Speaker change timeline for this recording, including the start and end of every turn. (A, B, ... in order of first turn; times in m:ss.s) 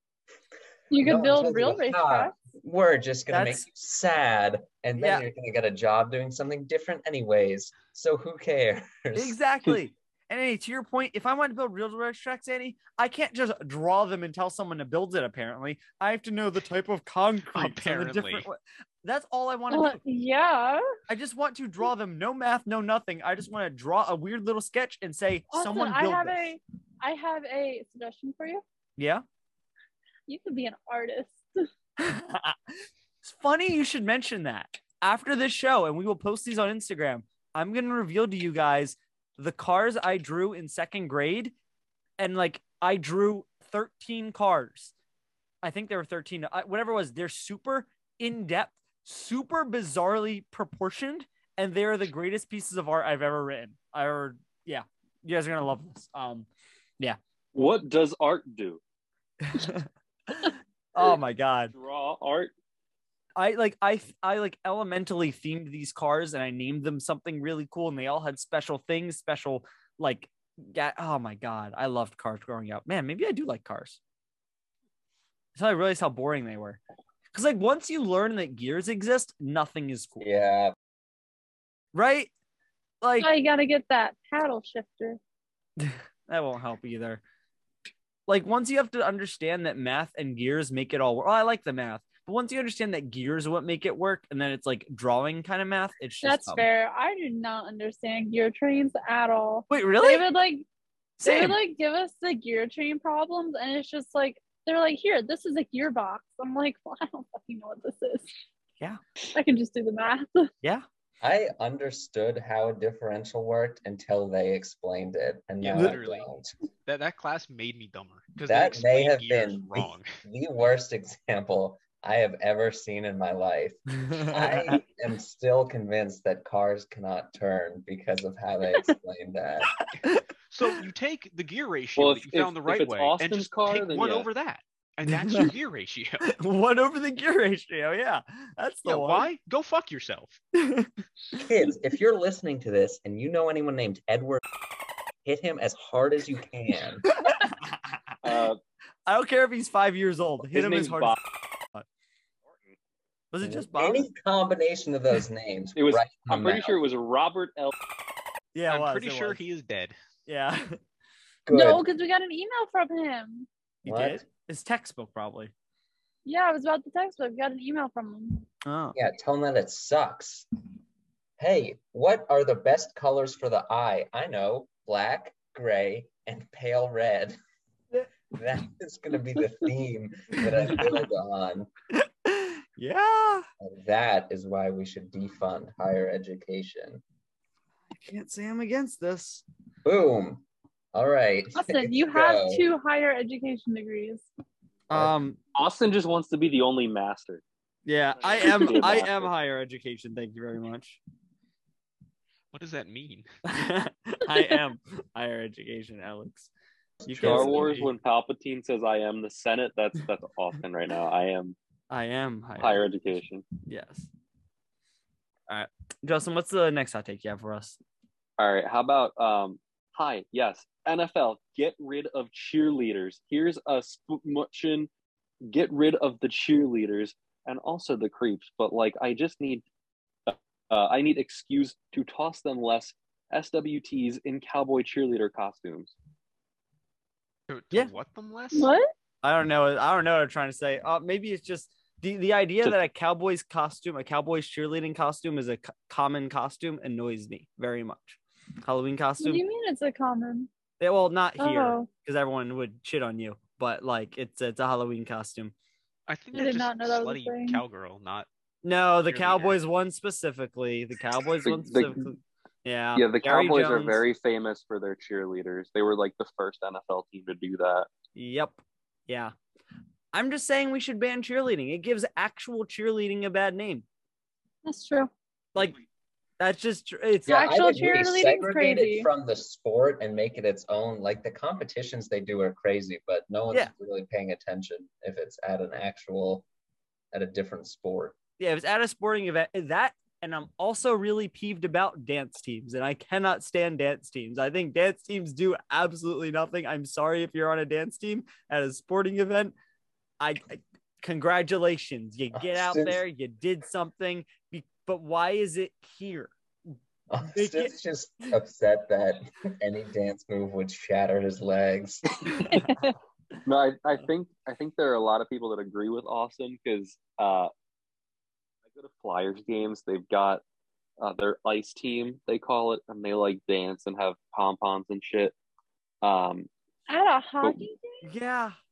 0:00.9-0:02.3 A
0:00.9-0:09.4 B
0:03.3-0:03.6 C
0:05.0-0:05.2 C
0:09.1-0:20.0 C
0:17.5-0:18.5 D
0:19.7-0:20.9 A
0:21.1-0:26.5 C
0:25.5-0:28.6 A
0:29.0-0:29.2 C
0:30.3-0:31.7 A
0:32.0-0:41.5 C
0:42.2-0:44.9 C
0:45.6-0:56.5 C
0:57.5-0:58.8 E
0:59.4-1:01.7 C
1:01.7-1:02.5 E
1:03.4-1:14.0 C
1:15.5-1:16.8 C
1:17.3-1:20.2 C
1:20.2-1:20.7 B
1:21.9-1:22.3 C
1:23.0-1:23.3 C
1:23.2-1:25.2 A
1:25.8-1:27.2 C
1:28.3-1:36.6 C
1:36.2-1:40.6 A
1:39.7-1:40.2 C
1:41.2-1:41.6 C
1:41.2-1:48.3 A
1:49.3-1:50.5 A
1:51.2-1:56.5 B
1:55.6-1:56.3 D
1:55.7-1:56.0 C
1:56.8-2:00.2 D
1:58.4-2:09.7 B
2:04.0-2:04.8 C
2:10.5-2:16.2 D
2:12.0-2:14.3 E
2:15.1-2:15.5 C
2:16.3-2:19.3 C
2:18.8-2:20.4 D
2:20.5-2:21.4 C
2:21.4-2:24.4 B
2:25.2-2:27.0 B
2:27.2-2:27.9 C
2:28.2-2:28.6 E
2:29.1-2:31.2 C
2:30.4-2:31.2 E
2:33.3-2:34.1 C
2:33.4-2:36.8 B
2:35.8-2:37.7 E
2:38.5-2:39.4 C
2:38.7-2:40.0 D
2:40.3-2:40.8 C
2:41.4-2:41.8 B
2:41.5-2:43.5 A
2:43.8-2:45.5 C
2:43.8-2:44.2 B
2:46.2-2:48.4 A
2:48.6-2:49.0 C
2:48.9-2:50.5 B
2:51.4-2:57.4 B
2:58.3-3:01.7 B
3:00.4-3:01.0 C
3:01.9-3:03.5 C
3:03.6-3:07.0 B
3:07.9-3:09.4 C
3:09.8-3:12.6 B
3:11.5-3:14.2 A
3:14.9-3:15.4 C
3:15.5-3:17.4 E
3:17.8-3:21.0 C
3:18.2-3:19.3 E
3:22.5-3:23.3 D
3:23.5-3:26.5 C
3:27.0-3:27.9 B
3:27.1-3:27.9 C
3:27.2-3:31.6 E
3:31.9-3:32.8 C
3:32.6-3:33.5 E
3:33.6-3:34.1 C
3:35.5-3:37.8 C
3:38.4-3:44.9 E
3:45.5-3:49.6 E
3:50.3-3:55.9 E
3:57.5-3:58.7 D
3:58.5-3:58.9 A
3:59.2-4:09.4 C
4:09.2-4:10.5 A
4:10.8-4:15.5 C
4:11.4-4:11.9 A
4:16.1-4:18.3 D
4:16.3-4:17.6 A
4:18.6-4:24.0 C
4:19.0-4:19.6 D
4:21.4-4:22.1 E
4:22.9-4:27.9 E
4:28.2-4:29.3 C
4:30.1-4:33.8 C
4:34.6-4:35.1 A
4:36.4-4:37.4 C
4:37.2-4:46.4 B
4:37.3-4:39.1 A
4:47.1-4:48.2 B
4:48.4-4:59.5 C
5:00.2-5:06.3 C
5:02.3-5:03.0 B
5:07.1-5:12.3 B
5:07.3-5:07.7 C
5:12.5-5:12.9 A
5:13.4-5:17.5 E
5:18.7-5:20.4 E
5:21.0-5:25.3 E
5:26.0-5:26.5 E
5:26.9-5:28.1 A
5:28.0-5:28.6 C